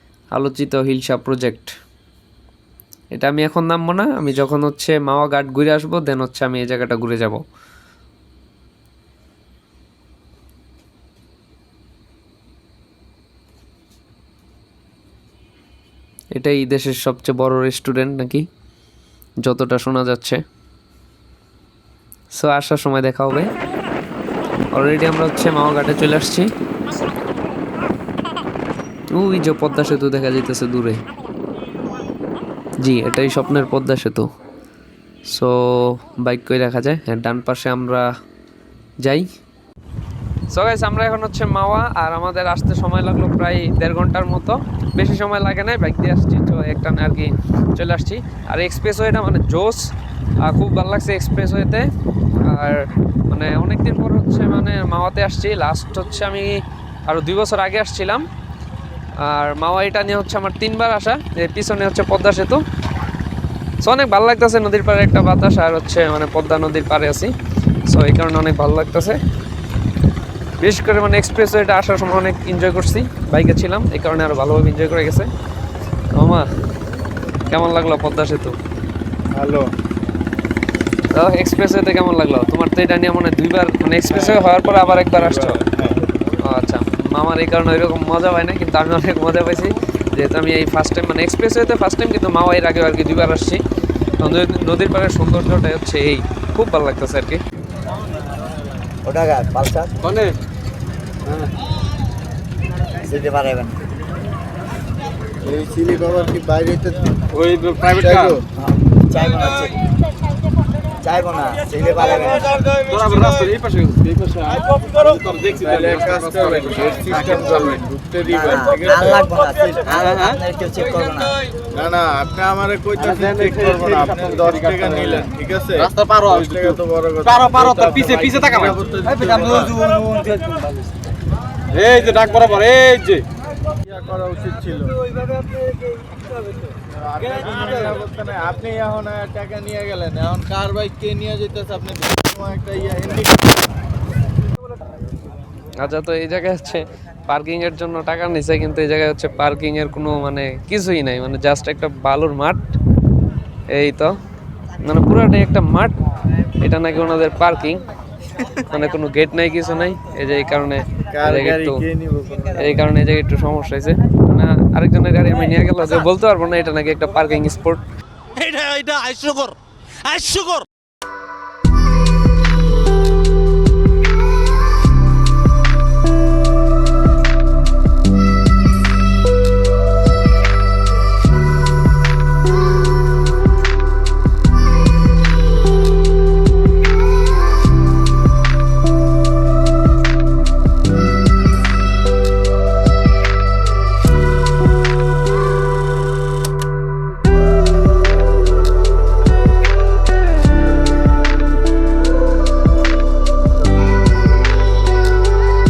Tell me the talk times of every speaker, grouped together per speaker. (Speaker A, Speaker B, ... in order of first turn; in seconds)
Speaker A: 0.3-1.8, 3.1-7.4, 16.4-18.5, 19.4-20.4, 22.3-23.5, 24.7-26.5, 29.1-31.0, 32.8-34.3, 35.3-38.1, 39.0-39.3, 40.5-49.9, 50.4-58.2, 59.2-62.6, 63.8-67.3, 67.9-69.2, 70.6-75.3, 76.1-76.5, 77.5-78.6, 81.1-85.6, 86.4-93.6, 94.2-97.4, 145.8-152.7, 153.7-154.2, 154.8-155.9, 156.6-157.8, 158.5-161.8, 162.5-167.8
Speaker B: 79.3-79.7, 84.1-84.4, 85.2-86.0, 105.4-107.0, 108.0-108.5, 115.6-119.8, 121.7-129.7, 133.8-135.0, 136.9-143.6, 161.1-162.6
Speaker C: 99.0-100.0, 103.0-103.8, 108.6-109.8, 111.0-112.5, 118.5-121.3
Speaker D: 100.0-100.3, 107.3-108.4, 112.7-117.8, 119.8-120.4, 123.0-125.3, 125.8-130.7, 131.7-133.2
Speaker E: 168.3-170.7